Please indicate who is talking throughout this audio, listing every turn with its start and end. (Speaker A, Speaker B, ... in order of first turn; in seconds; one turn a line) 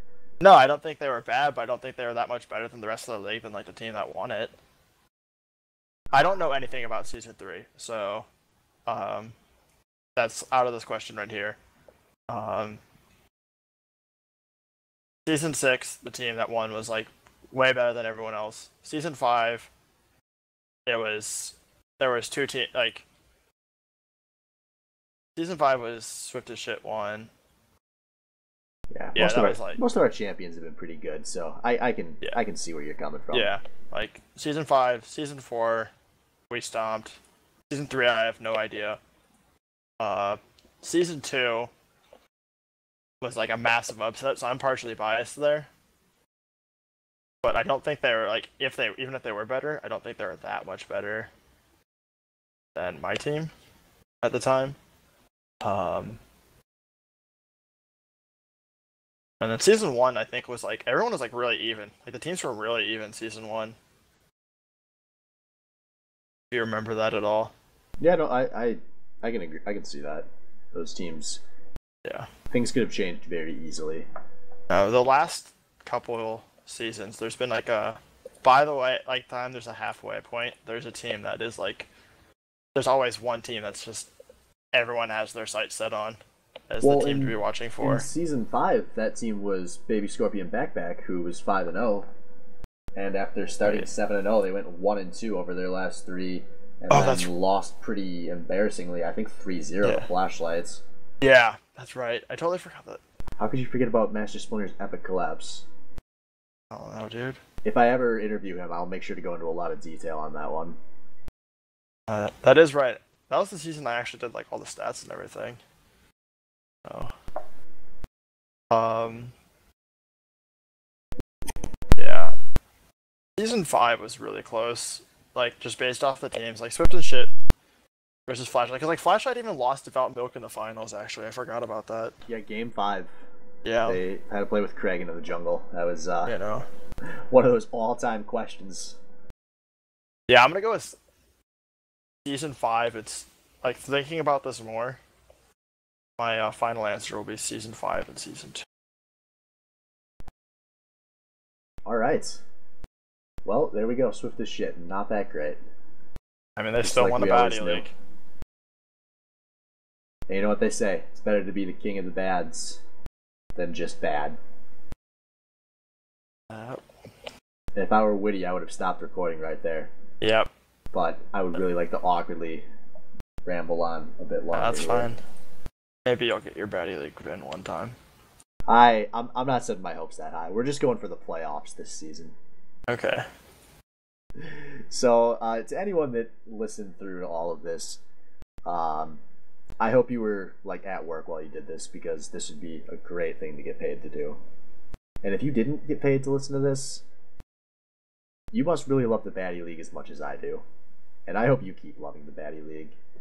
Speaker A: 0.4-4.5
Speaker A: 6.1-8.3
Speaker A: 8.9-9.3
Speaker A: 10.2-11.6
Speaker A: 12.3-12.8
Speaker A: 15.3-19.7
Speaker A: 20.9-23.0
Speaker A: 25.4-27.3
Speaker B: 28.9-33.5
Speaker A: 29.1-29.8
Speaker A: 33.3-35.9
Speaker A: 36.5-37.2
Speaker A: 37.7-39.0
Speaker A: 40.0-41.7
Speaker A: 43.2-45.7
Speaker A: 47.4-51.3
Speaker A: 52.7-53.5
Speaker A: 54.2-54.8
Speaker A: 55.6-56.2
Speaker A: 59.4-63.8
Speaker A: 66.5-67.5
Speaker B: 68.0-71.4
Speaker B: 72.5-74.0
Speaker A: 74.7-81.9
Speaker A: 82.7-84.1
Speaker A: 84.7-88.0
Speaker B: 86.8-92.1
Speaker B: 93.0-100.8
Speaker A: 93.6-93.9
Speaker A: 96.9-97.3
Speaker A: 101.2-103.0
Speaker B: 103.4-105.7
Speaker A: 106.7-107.4
Speaker B: 107.6-110.8
Speaker A: 112.1-115.6
Speaker A: 116.8-117.1
Speaker A: 118.7-119.3
Speaker A: 122.0-122.3
Speaker A: 123.4-127.3
Speaker A: 128.3-132.2
Speaker B: 132.3-133.1
Speaker A: 133.6-134.0
Speaker B: 133.8-136.3
Speaker A: 136.3-136.7
Speaker B: 137.1-139.0
Speaker A: 140.3-141.0
Speaker A: 142.2-145.0
Speaker A: 146.2-148.6
Speaker B: 151.8-152.4
Speaker B: 153.4-155.6
Speaker A: 156.6-157.9
Speaker B: 156.8-157.8
Speaker B: 160.3-162.8
Speaker B: 163.6-164.4
Speaker A: 166.5-166.8
Speaker B: 167.8-169.9
Speaker A: 170.2-170.5
Speaker B: 170.9-172.7
Speaker B: 173.4-175.1
Speaker A: 174.5-175.2
Speaker A: 176.1-177.9
Speaker B: 178.7-182.3
Speaker A: 182.9-183.3
Speaker B: 184.4-188.0
Speaker B: 188.7-189.2
Speaker B: 189.8-194.4
Speaker B: 195.2-197.1
Speaker B: 198.5-200.6
Speaker B: 201.3-203.0